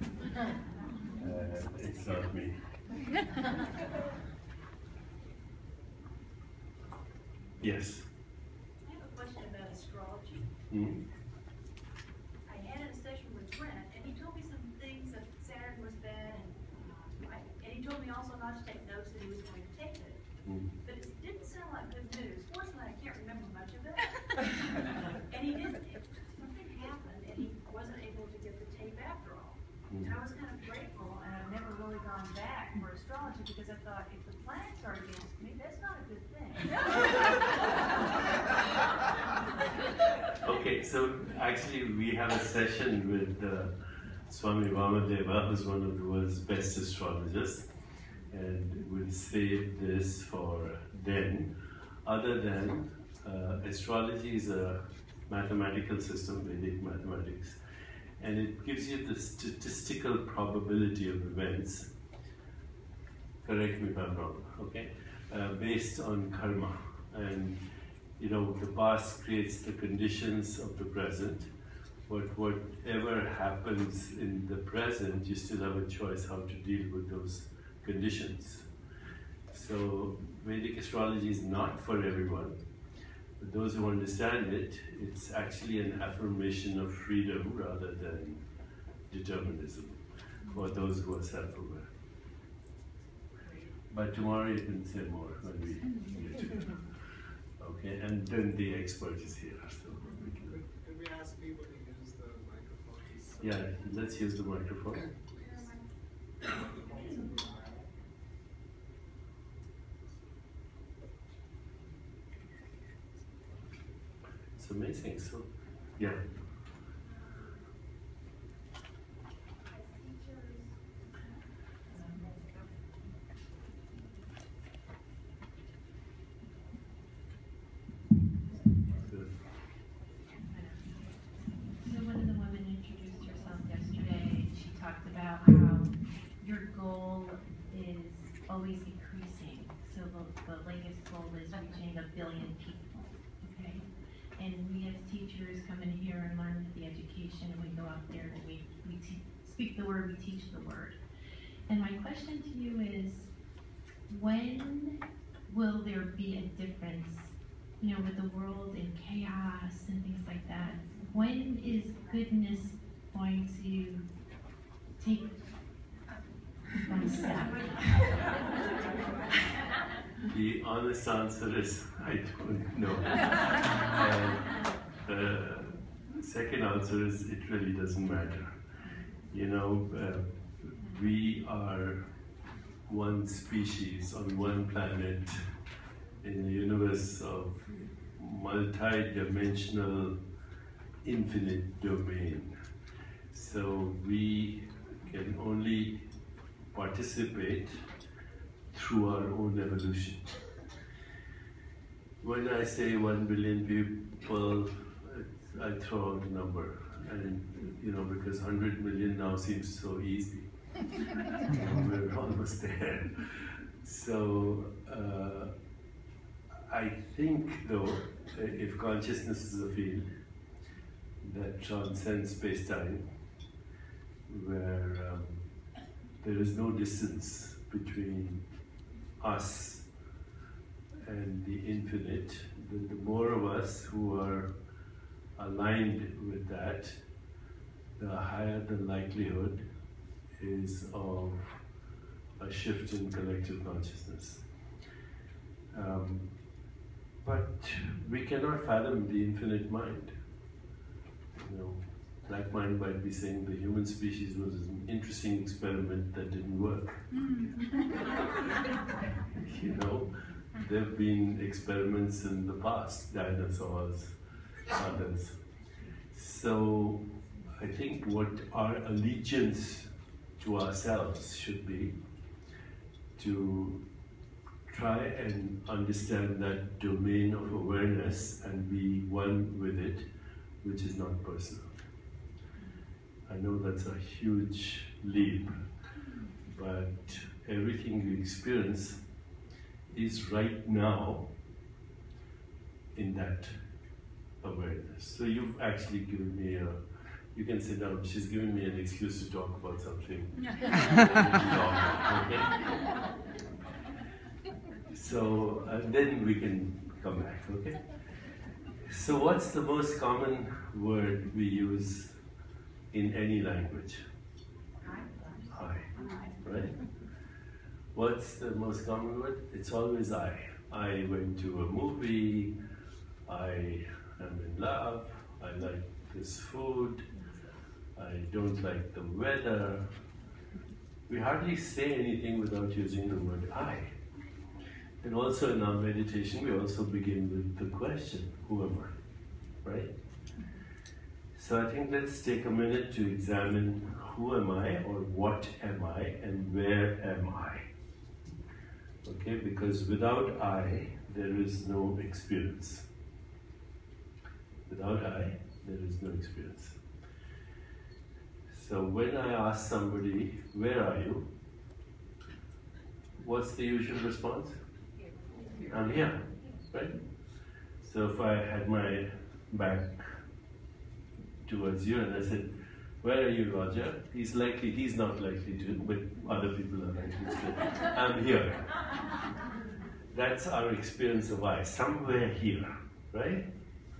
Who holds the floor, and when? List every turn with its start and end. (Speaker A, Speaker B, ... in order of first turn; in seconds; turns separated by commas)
Speaker A: 1.1-2.6, Speaker A: 7.6-8.1, Speaker B: 8.8-10.5, Speaker A: 10.7-11.0, Speaker B: 12.5-20.2, Speaker A: 20.4-20.7, Speaker B: 20.8-38.0, Speaker A: 29.9-30.1, Speaker A: 40.4-43.7, Speaker A: 44.3-47.7, Speaker A: 48.3-51.5, Speaker A: 52.0-57.6, Speaker A: 58.2-61.9, Speaker A: 63.4-67.6, Speaker A: 68.2-71.5, Speaker A: 72.1-78.7, Speaker A: 79.5-82.5, Speaker A: 83.4-88.4, Speaker A: 89.1-91.9, Speaker A: 93.9-96.8, Speaker A: 97.6-100.6, Speaker C: 101.2-103.2, Speaker A: 103.4-105.2, Speaker B: 105.4-105.8, Speaker B: 106.5-107.5, Speaker A: 114.6-116.2, Speaker B: 119.8-120.4, Speaker A: 128.9-129.3, Speaker D: 130.4-131.0, Speaker D: 131.7-151.0, Speaker D: 151.7-153.3, Speaker D: 154.1-164.1, Speaker D: 165.0-165.3, Speaker D: 166.8-168.3, Speaker A: 170.3-174.5, Speaker A: 175.0-178.6, Speaker A: 179.3-182.1, Speaker A: 182.9-185.4, Speaker A: 186.2-190.2, Speaker A: 191.0-192.5, Speaker A: 193.3-196.0, Speaker A: 196.7-197.8, Speaker A: 198.7-200.3, Speaker A: 202.2-210.5, Speaker A: 211.4-215.5, Speaker A: 216.7-220.1, Speaker A: 221.2-223.0, Speaker A: 224.3-225.4, Speaker A: 226.2-228.4, Speaker A: 229.2-229.9, Speaker A: 231.1-234.5, Speaker A: 235.4-237.0, Speaker A: 238.0-239.6, Speaker A: 240.4-241.6, Speaker A: 242.4-244.4, Speaker A: 245.7-246.2, Speaker A: 247.2-250.1, Speaker A: 251.4-257.6, Speaker A: 259.3-264.2, Speaker A: 264.7-265.4, Speaker A: 266.1-271.9, Speaker A: 273.2-273.8, Speaker A: 274.7-280.1, Speaker A: 280.6-281.8, Speaker A: 283.3-285.6, Speaker A: 286.4-289.0, Speaker A: 289.9-291.3, Speaker A: 292.9-293.5, Speaker A: 294.4-296.8, Speaker A: 297.4-302.6, Speaker A: 304.9-307.8, Speaker A: 308.8-312.2, Speaker A: 312.9-314.0, Speaker B: 314.9-315.4, Speaker A: 315.5-316.8, Speaker A: 317.9-322.5, Speaker A: 323.3-327.1, Speaker A: 328.0-329.9, Speaker A: 331.1-333.9, Speaker A: 335.0-338.9, Speaker A: 339.6-339.9, Speaker A: 341.4-347.7, Speaker A: 349.0-352.9, Speaker A: 354.7-356.8, Speaker A: 358.5-361.3, Speaker A: 363.2-364.6, Speaker A: 365.5-367.0, Speaker A: 367.8-370.1, Speaker A: 371.5-372.5, Speaker A: 373.0-378.8, Speaker A: 380.1-383.5